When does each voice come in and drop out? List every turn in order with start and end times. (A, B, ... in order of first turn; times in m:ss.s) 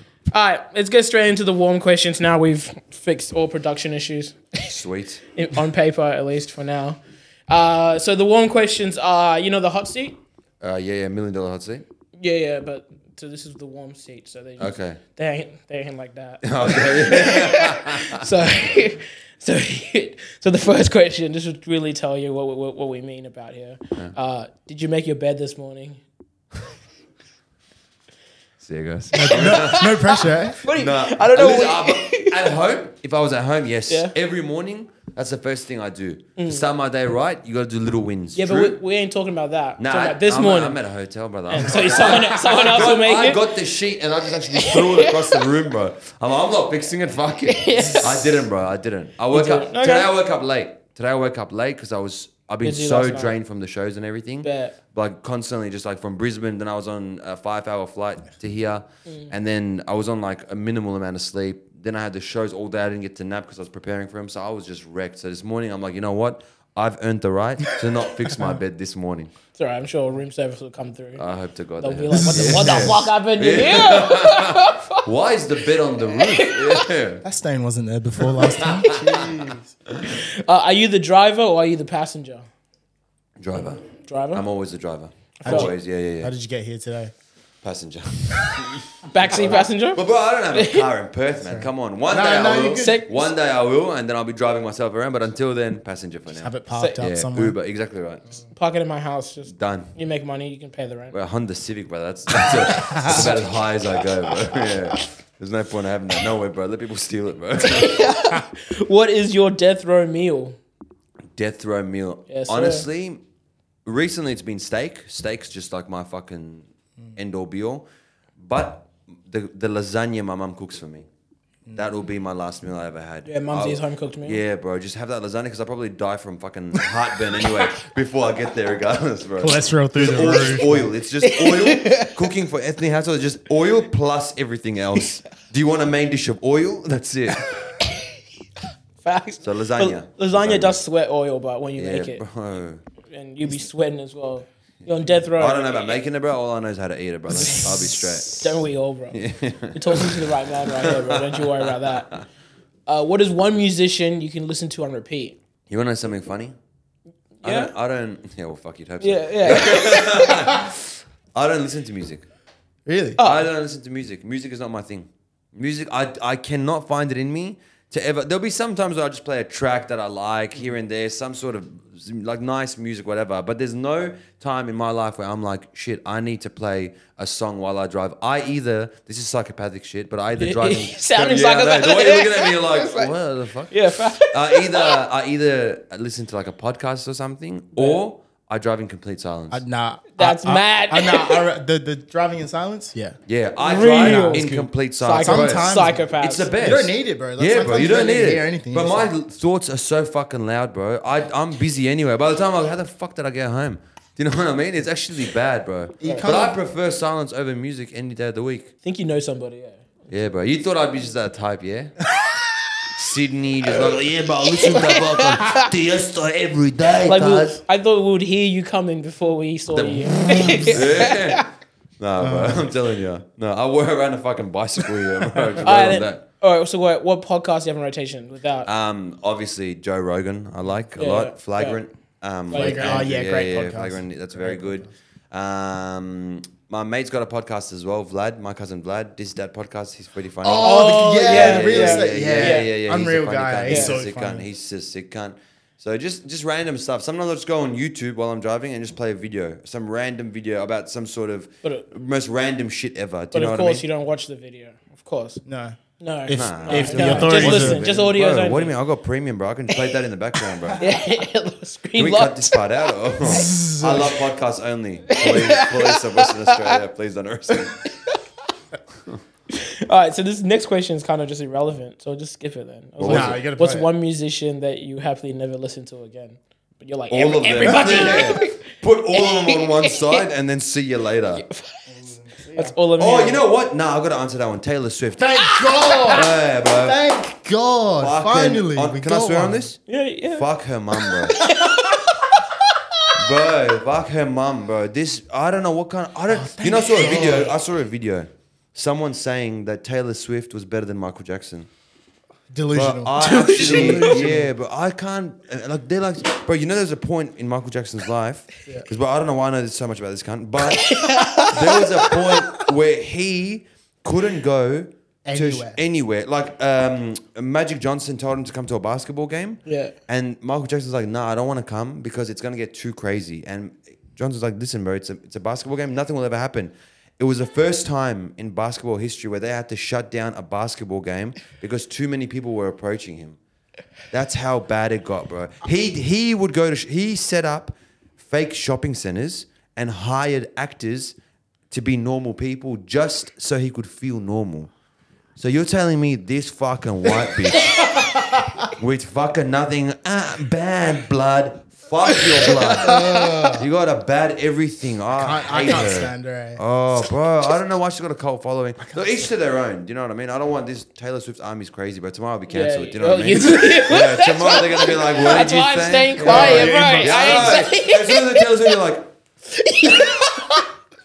0:00.3-0:04.8 A
0:04.6-0:05.2 B
0:05.4-0:10.2 A
0:10.6-0:11.8 B
0:12.2-0:26.0 A
0:14.6-0:15.0 B
0:16.4-0:18.2 B
0:28.6-0:30.0 B
0:29.1-0:30.7 C
0:29.3-0:32.5 A
0:30.7-0:38.8 B
0:36.4-0:36.6 A
0:38.4-0:40.8 A
0:39.8-1:09.3 B
0:41.5-0:43.5 A
0:44.5-0:45.5 A
0:47.5-0:48.4 A
0:49.3-0:50.1 A
0:52.6-0:53.4 A
0:54.4-0:54.8 A
1:08.3-1:08.6 C
1:09.6-1:11.2 A
1:11.2-1:17.2 B
1:11.8-1:15.0 A
1:12.1-1:13.1 C
1:16.0-1:16.9 A
1:17.2-1:19.7 C
1:18.4-1:19.2 B
1:20.1-1:22.5 A
1:23.4-1:26.3 B
1:23.8-1:24.4 A
1:25.4-1:27.1 C
1:25.4-1:25.7 A
1:27.6-1:38.3 B
1:29.0-1:30.9 A
1:31.5-1:33.0 C
1:32.8-1:33.3 A
1:36.3-1:37.6 C
1:36.7-1:37.0 A
1:38.6-1:41.2 A
1:39.5-1:39.9 B
1:41.1-1:48.0 B
1:42.6-1:43.4 C
1:42.9-1:43.3 A
1:47.6-1:50.6 A
1:51.4-1:53.2 B
1:52.3-1:52.8 A
1:53.8-1:57.9 B
1:58.4-2:01.1 B
2:01.8-2:17.4 B
2:03.3-2:04.4 A
2:09.4-2:10.9 C
2:11.2-2:12.1 A
2:19.0-2:22.2 A
2:19.4-2:20.8 B
2:21.8-2:22.8 B
2:23.1-2:26.0 A
2:24.9-2:28.6 B
2:27.4-2:29.2 A
2:29.1-2:31.9 B
2:29.7-2:32.2 A
2:32.9-2:35.4 A
2:35.7-2:36.6 B
2:37.4-2:42.2 B
2:37.4-2:37.7 A
2:39.0-2:40.6 A
2:42.9-2:43.2 C
2:43.2-2:43.5 A
2:43.2-3:09.6 B
3:00.4-3:03.1 A
3:03.7-3:05.0 A
3:07.8-3:08.0 A
3:09.5-3:13.2 C
3:10.2-3:11.5 A
3:13.3-3:28.7 B
3:13.6-3:16.5 A
3:14.0-3:16.1 C
3:16.6-3:19.1 C
3:26.0-3:26.6 C
3:26.0-3:26.3 A
3:28.8-3:29.8 A
3:30.1-3:31.9 B
3:32.9-3:37.6 B
3:34.6-3:35.7 A
3:37.0-3:41.4 A
3:39.7-3:40.1 B
3:40.7-3:41.5 B
3:42.0-3:46.2 B
3:42.2-3:42.6 C
3:45.6-3:48.7 A
3:48.6-4:13.8 B
3:51.0-3:51.8 A
3:52.5-3:53.1 A
3:52.5-3:54.9 C
4:00.4-4:04.4 C
4:00.5-4:02.7 A
4:03.7-4:04.0 A
4:13.3-4:15.4 A
4:15.5-4:17.8 C
4:16.0-4:18.8 A
4:16.3-4:20.8 B
4:20.8-4:22.6 A
4:22.0-4:27.8 B
4:23.2-4:24.2 C
4:25.1-4:26.8 A
4:29.5-4:38.6 A
4:33.0-4:33.4 B
4:33.0-4:33.9 C
4:37.1-4:41.5 B
4:39.1-4:40.2 A
4:41.4-4:41.8 A
4:41.9-4:42.8 C
4:42.5-4:43.4 A
4:43.0-4:45.6 B
4:45.2-4:49.7 C
4:45.6-4:46.2 A
4:46.1-4:47.0 B
4:48.0-4:49.8 B
4:49.9-4:50.5 A
4:50.3-4:51.4 B
4:51.4-4:52.3 A
4:51.4-4:52.0 C
4:53.2-5:01.7 B
4:56.3-4:57.6 C
5:02.5-5:04.5 C
5:02.7-5:33.4 B
5:03.2-5:04.3 A
5:10.7-5:12.4 A
5:15.2-5:15.8 C
5:19.7-5:19.9 A
5:34.1-5:41.2 B
5:41.7-5:44.7 B
5:45.4-5:47.8 B
5:48.8-5:53.0 B
5:52.8-5:53.7 C
5:52.8-5:53.5 A
5:53.6-6:09.1 B
5:55.1-5:56.6 C
5:58.8-5:59.3 C
6:02.5-6:08.7 A
6:06.2-6:07.6 C
6:09.5-6:10.6 A